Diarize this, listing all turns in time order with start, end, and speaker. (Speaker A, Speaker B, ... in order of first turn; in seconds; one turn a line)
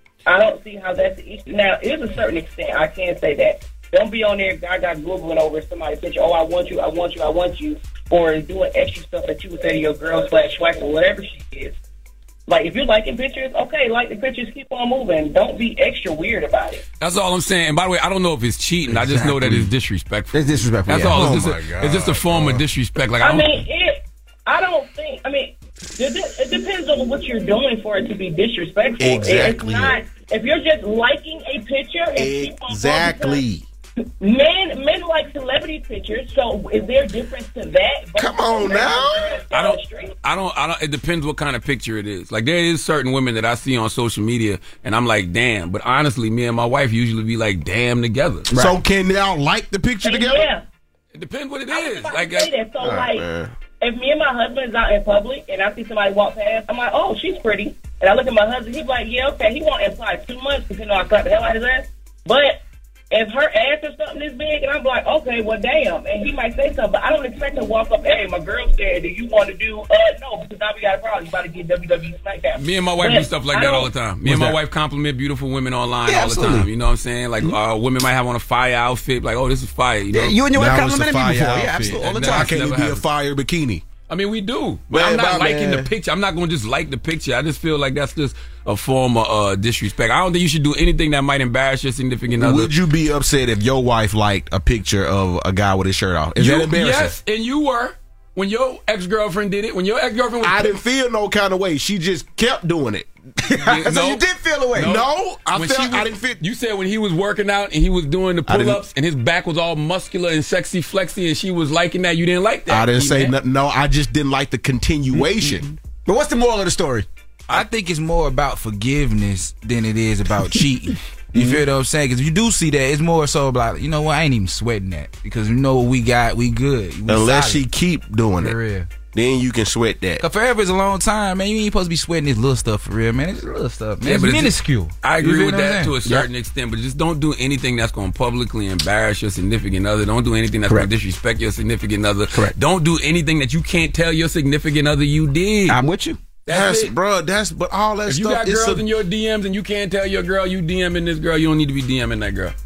Speaker A: 0.2-11.8
Speaker A: 12.5-16.8
Speaker B: 17.0-23.6
Speaker C: 18.9-19.7
Speaker C: 20.3-21.3
Speaker D: 21.1-22.6
Speaker A: 23.2-33.4
Speaker D: 29.0-30.0
Speaker D: 32.1-33.6
Speaker A: 34.2-40.1
Speaker D: 38.2-39.4
Speaker B: 39.5-48.5
Speaker D: 48.5-50.5
Speaker A: 50.0-50.6
Speaker B: 51.1-52.5
Speaker A: 51.7-53.2
Speaker D: 52.8-53.5
Speaker A: 53.8-62.6
Speaker A: 63.1-73.9
Speaker B: 72.6-80.4
Speaker C: 74.2-74.6
Speaker C: 76.1-76.7
Speaker C: 80.1-82.6
Speaker D: 80.5-83.8
Speaker B: 81.9-83.1
Speaker B: 84.1-92.7
Speaker D: 84.9-85.9
Speaker D: 92.4-97.1
Speaker B: 96.4-100.7
Speaker D: 100.4-103.1
Speaker C: 103.4-105.0
Speaker B: 103.6-104.2
Speaker B: 104.7-113.3
Speaker D: 104.8-106.4
Speaker D: 108.5-108.8
Speaker D: 112.7-115.7
Speaker C: 115.1-117.1
Speaker E: 117.5-127.7
Speaker C: 121.3-121.6
Speaker D: 127.1-128.6
Speaker E: 128.4-128.9
Speaker D: 129.1-130.2
Speaker E: 130.2-136.0
Speaker B: 134.0-145.8
Speaker C: 145.7-146.2
Speaker B: 146.5-146.9
Speaker D: 146.5-148.9
Speaker B: 148.1-152.6